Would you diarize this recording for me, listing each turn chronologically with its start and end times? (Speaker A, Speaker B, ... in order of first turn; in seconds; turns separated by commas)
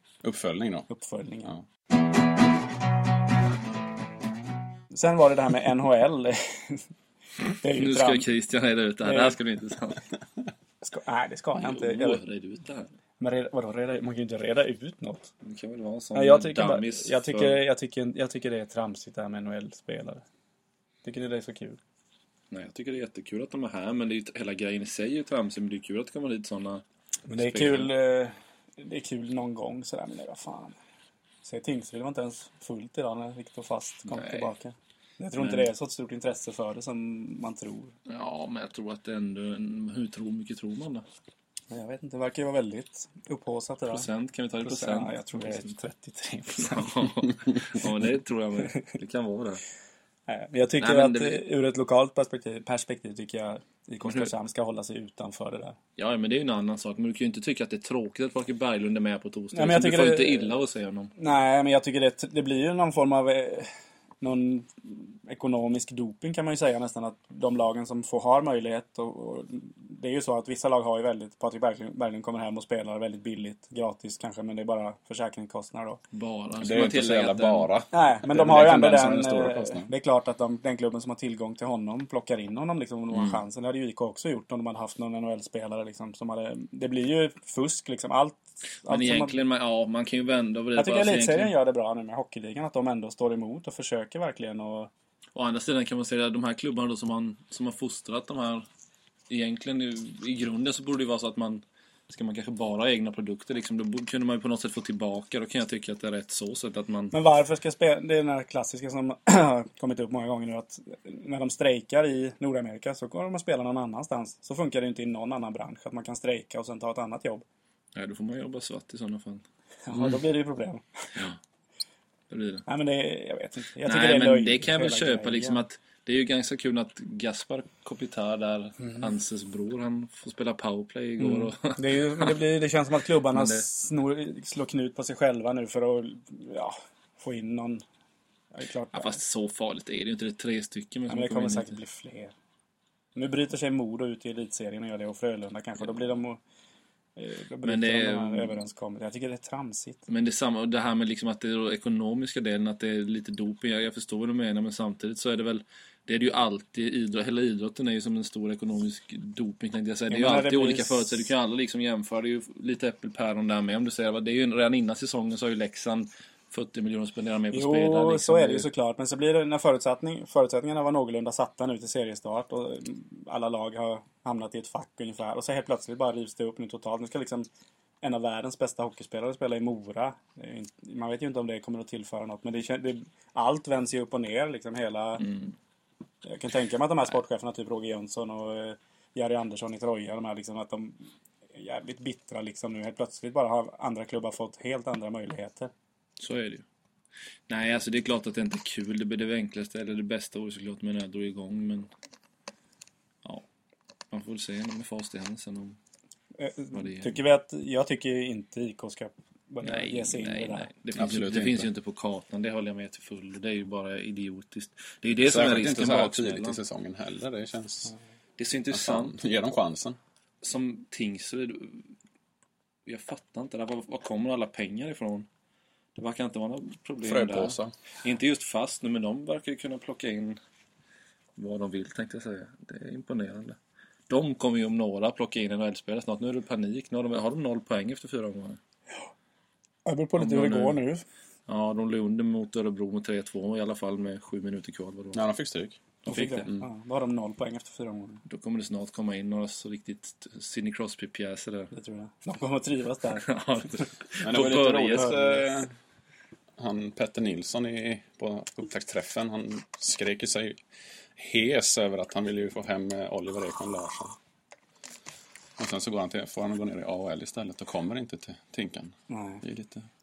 Speaker A: 0.2-0.9, Speaker B: 0.9-1.5, Speaker B: 4.9-6.8, Speaker B: 7.6-8.3, Speaker C: 7.8-10.1, Speaker B: 9.0-9.4, Speaker B: 10.8-12.2, Speaker C: 11.6-12.9, Speaker B: 13.2-15.3, Speaker C: 15.4-17.6, Speaker B: 16.1-20.2, Speaker B: 21.0-21.8, Speaker C: 22.5-26.8, Speaker B: 27.3-30.8, Speaker C: 27.4-27.9, Speaker B: 31.4-37.9, Speaker C: 34.1-34.5, Speaker C: 35.4-35.7, Speaker C: 38.1-41.0, Speaker B: 41.7-44.0, Speaker C: 43.9-45.7, Speaker B: 44.6-47.1, Speaker C: 46.6-49.6, Speaker B: 50.3-55.8, Speaker C: 50.8-51.4, Speaker C: 54.0-54.3, Speaker C: 56.0-61.1, Speaker B: 59.5-60.5, Speaker B: 61.1-63.7, Speaker B: 64.2-76.0, Speaker C: 76.1-77.7, Speaker A: 76.6-79.9, Speaker B: 77.9-89.3, Speaker C: 83.1-83.4, Speaker C: 88.9-91.5, Speaker B: 90.8-94.9, Speaker C: 95.3-98.7, Speaker C: 99.3-107.1, Speaker B: 107.1-117.4, Speaker C: 117.9-119.4, Speaker B: 119.9-120.8, Speaker C: 122.3-122.6, Speaker B: 122.7-125.6, Speaker C: 123.8-132.3, Speaker B: 131.2-137.8, Speaker C: 133.3-133.6, Speaker B: 138.5-139.2, Speaker C: 138.9-141.8, Speaker B: 141.1-142.3, Speaker B: 143.1-146.4, Speaker B: 147.2-150.0, Speaker C: 147.6-148.6, Speaker C: 150.1-168.7, Speaker B: 160.1-161.3, Speaker B: 167.5-177.5, Speaker B: 178.0-185.2, Speaker C: 185.2-185.5, Speaker B: 186.2-191.0, Speaker B: 191.5-195.7, Speaker C: 196.2-196.6, Speaker C: 197.5-201.9, Speaker C: 204.1-205.8, Speaker B: 206.4-210.7, Speaker C: 206.7-207.1, Speaker C: 209.6-216.6, Speaker A: 210.9-211.7, Speaker A: 215.2-217.9, Speaker C: 218.4-219.2, Speaker A: 218.7-220.0, Speaker C: 220.4-221.8, Speaker C: 222.8-225.3, Speaker C: 225.9-230.4, Speaker A: 227.0-227.7, Speaker C: 231.4-233.6, Speaker C: 234.1-238.6, Speaker B: 239.8-241.0, Speaker C: 240.2-240.8, Speaker C: 241.5-245.2, Speaker A: 245.1-245.8, Speaker C: 246.0-246.5, Speaker B: 246.1-248.2, Speaker C: 248.3-251.7, Speaker B: 251.7-253.2, Speaker C: 253.2-255.2, Speaker A: 254.2-255.7, Speaker B: 254.9-255.7, Speaker A: 256.6-260.6, Speaker A: 261.1-264.2, Speaker A: 265.6-269.9, Speaker B: 269.1-269.4